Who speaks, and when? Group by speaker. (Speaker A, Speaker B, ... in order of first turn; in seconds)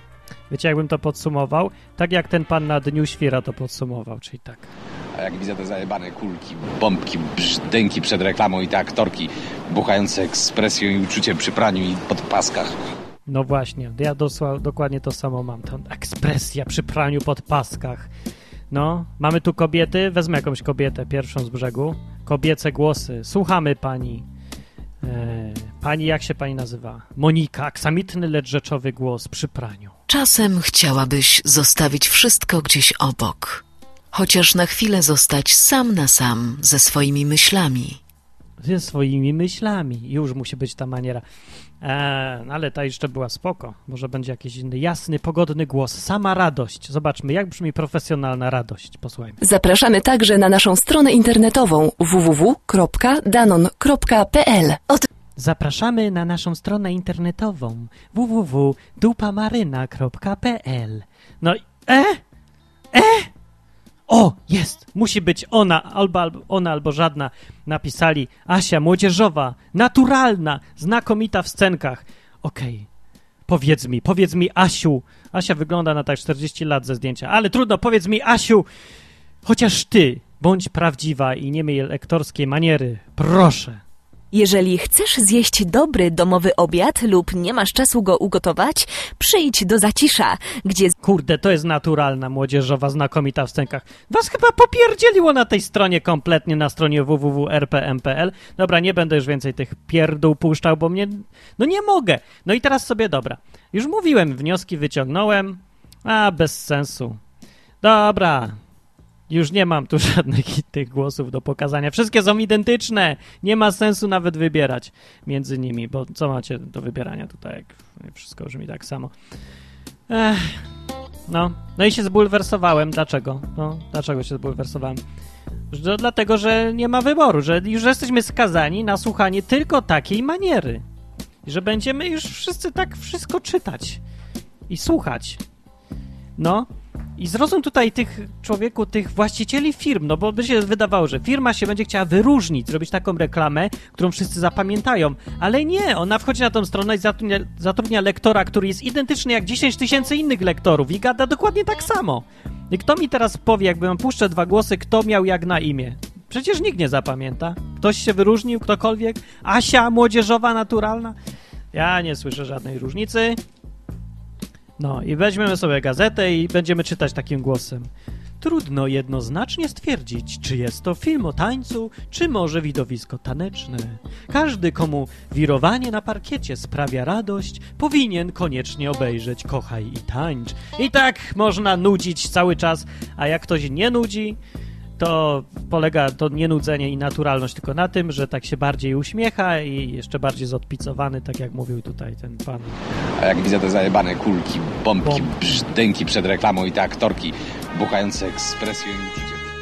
Speaker A: 0.5-4.7, 13.3-18.1, 18.7-24.2, 25.0-29.9, 38.6-41.2, 41.8-49.4, 55.4-62.2, 62.9-63.3, 64.1-72.9, 73.5-78.7, 79.5-83.8, 91.0-107.2, 107.8-108.6, 109.3-119.1, 120.1-120.7, 121.3-125.0, 125.7-130.8, 131.4-134.0, 134.7-135.4, 136.4-161.2, 161.7-163.4, 164.8-167.9, 168.4-184.4, 185.0-192.8, 195.0-195.7
Speaker B: 5.2-12.7, 193.2-199.5
Speaker C: 30.1-38.0
Speaker D: 49.4-55.0
Speaker E: 84.3-90.9